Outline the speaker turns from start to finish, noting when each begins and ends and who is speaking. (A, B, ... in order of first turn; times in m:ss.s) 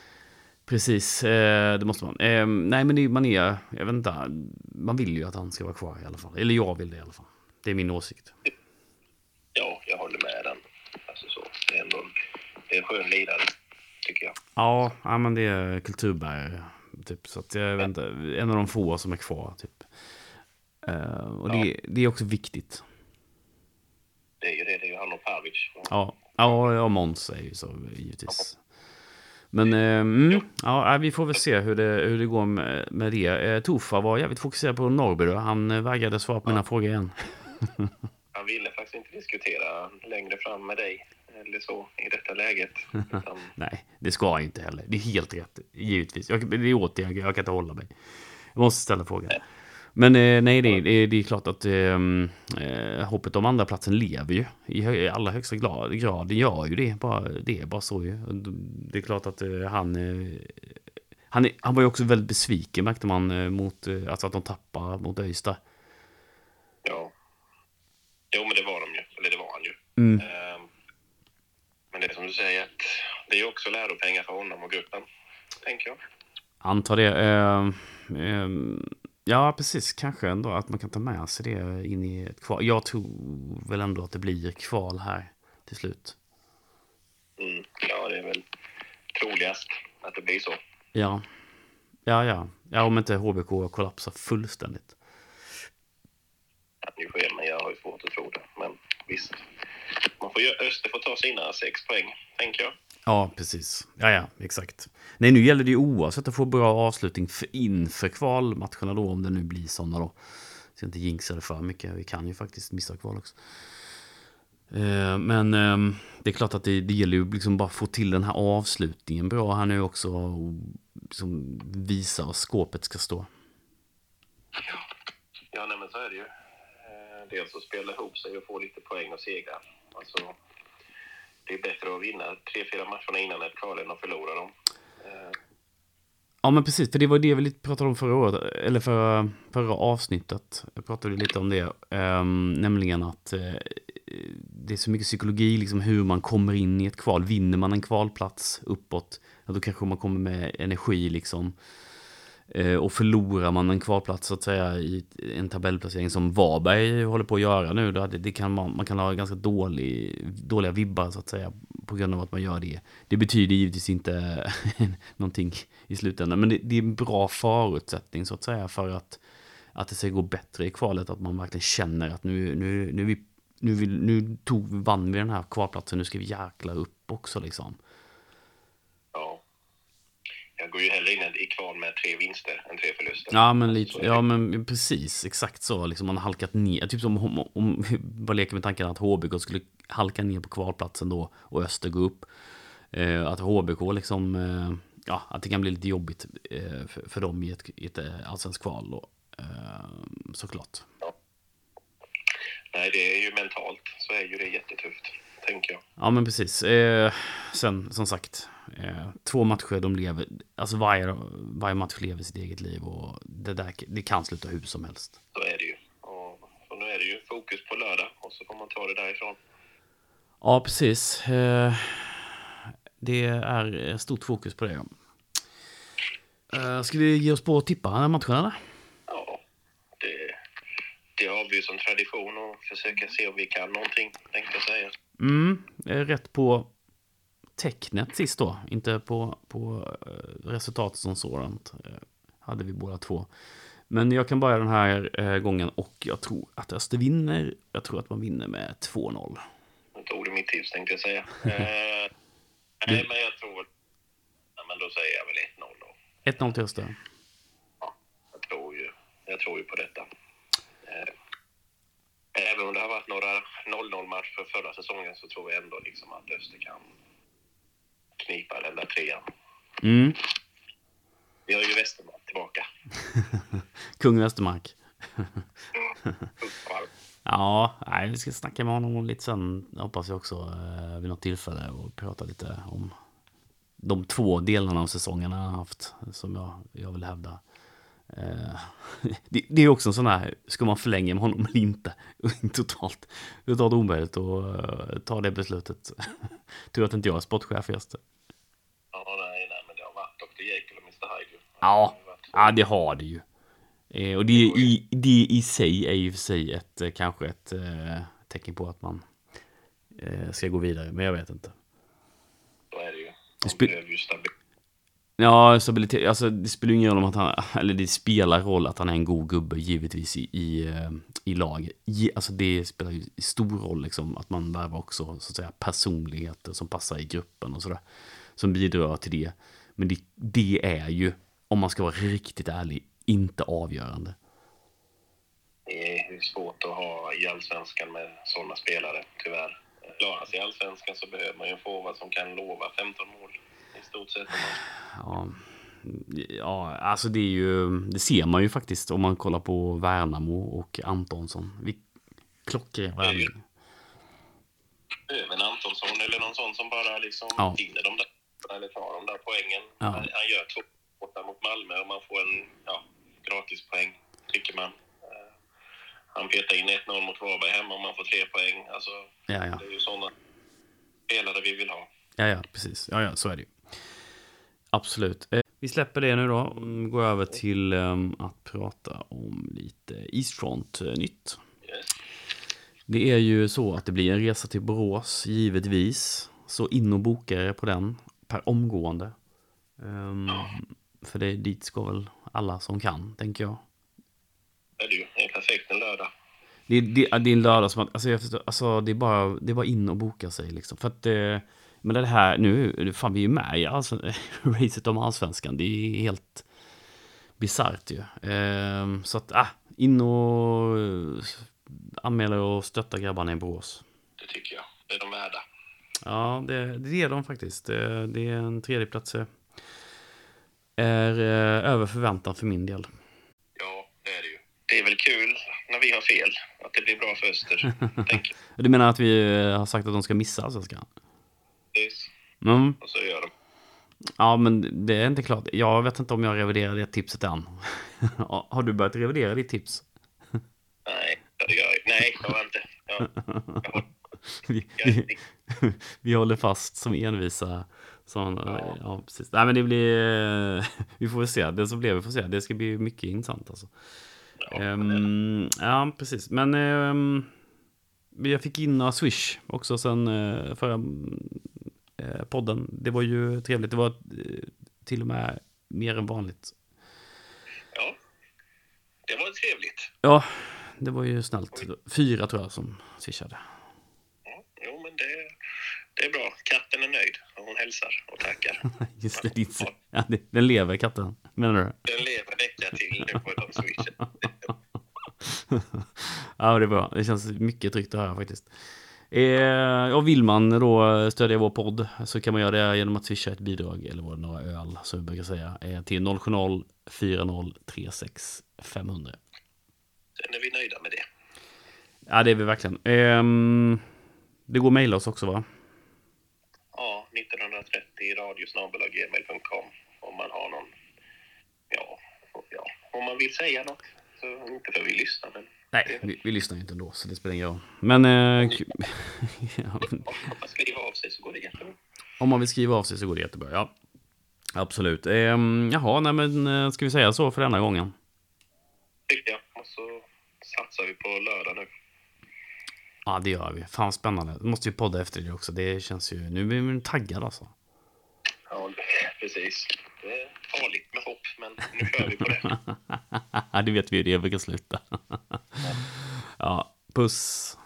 0:00.7-0:08.3 A
0:09.5-0:12.1 B
0:12.7-0:14.4 B
0:14.6-0:19.9 A
0:20.8-0:22.8 A
0:24.4-0:26.5 B
0:25.9-0:28.6 A
0:29.5-0:37.9 A
0:38.3-0:43.5 B
0:43.6-0:47.9 A
0:48.5-0:49.4 A
0:49.9-1:00.8 A
1:01.3-1:05.6 A
1:06.8-1:07.1 B
1:08.3-1:10.7 B
1:10.0-1:10.3 A
1:11.9-1:15.0 B
1:15.6-1:16.0 B
1:16.6-1:26.2 A
1:27.4-1:28.4 B
1:29.1-1:30.6 B
1:30.9-1:31.2 A
1:32.0-1:35.0 A
1:36.8-1:39.4 B
1:40.2-1:42.7 B
1:43.1-1:50.2 A
1:50.7-1:53.7 A
1:54.7-2:03.3 A
2:05.5-2:06.3 B
2:06.8-2:10.4 B
2:11.4-2:15.4 B
2:16.4-2:31.6 A
2:32.5-2:49.2 A
2:49.7-2:57.8 A
2:59.1-2:59.4 B
3:00.6-3:04.2 B
3:03.3-3:12.3 A
3:12.9-3:20.9 A
3:22.7-3:25.8 B
3:26.0-3:35.2 A
3:35.3-3:39.4 B
3:40.4-3:44.9 A
3:46.5-3:48.6 A
3:49.1-3:49.4 B
3:50.0-3:50.4 B
3:51.2-3:54.9 B
3:55.2-3:56.7 A
3:57.6-4:03.3 A
4:03.9-4:09.4 A
4:09.9-4:12.1 B
4:12.8-4:13.7 B
4:14.6-4:16.0 B
4:16.2-4:17.0 A
4:17.8-4:20.1 B
4:20.8-4:21.1 B
4:22.3-4:26.8 B
4:28.2-4:29.2 B
4:29.8-4:30.2 A
4:31.5-4:32.6 B
4:33.2-4:35.4 A
4:36.0-4:36.3 A
4:36.4-4:36.9 B
4:37.2-4:42.9 A
4:43.8-4:47.4 A
4:48.1-4:58.0 A
4:58.9-5:02.5 B
5:01.6-5:03.2 A
5:03.9-5:09.0 A
5:04.3-5:04.7 B
5:10.0-5:11.5 A
5:12.7-5:14.3 B
5:13.4-5:13.7 A
5:15.2-5:27.8 A
5:28.4-5:34.2 A
5:35.7-5:44.6 B
5:44.8-5:51.8 A
5:52.4-5:53.4 A
5:53.0-5:53.3 B
5:55.1-6:05.3 B
5:59.8-6:00.1 A
6:06.1-6:10.1 B
6:09.3-6:09.6 A
6:11.1-6:11.9 B
6:12.2-6:13.6 A
6:14.7-6:21.4 A
6:21.6-6:21.9 B
6:22.9-6:29.1 A
6:29.8-6:33.6 A
6:34.8-6:36.1 B
6:36.7-6:46.4 A
6:47.4-6:53.8 A
6:54.2-6:55.4 B
6:56.0-6:59.3 A
7:00.8-7:02.9 A
7:03.6-7:08.3 B
7:08.6-7:10.9 A
7:11.7-7:12.1 B
7:12.4-7:12.8 A
7:12.8-7:13.3 B
7:14.2-7:19.8 A
7:20.8-7:23.1 B
7:23.2-7:23.8 A
7:23.6-7:23.9 B
7:24.4-7:33.7 A
7:24.8-7:25.2 B
7:28.4-7:28.8 B
7:34.4-7:35.0 B
7:34.5-7:37.3 A
7:38.1-7:46.5 A
7:49.1-7:49.9 B
7:50.0-7:53.4 A
7:54.2-7:55.3 B
7:56.0-7:59.7 B
7:58.8-8:01.8 A
8:01.9-8:04.5 B
8:05.2-8:08.5 A
8:09.1-8:19.2 A
8:20.2-8:21.0 B
8:22.1-8:23.8 A
8:24.5-8:25.4 A
8:26.7-8:30.7 B
8:31.7-8:36.0 B
8:35.7-8:40.0 A
8:40.0-8:41.8 B
8:42.2-8:43.7 A
8:44.5-8:47.9 A
8:49.1-8:51.7 B
8:53.0-8:57.5 A
8:58.5-9:02.5 B
9:02.5-9:05.6 A
9:06.4-9:07.6 A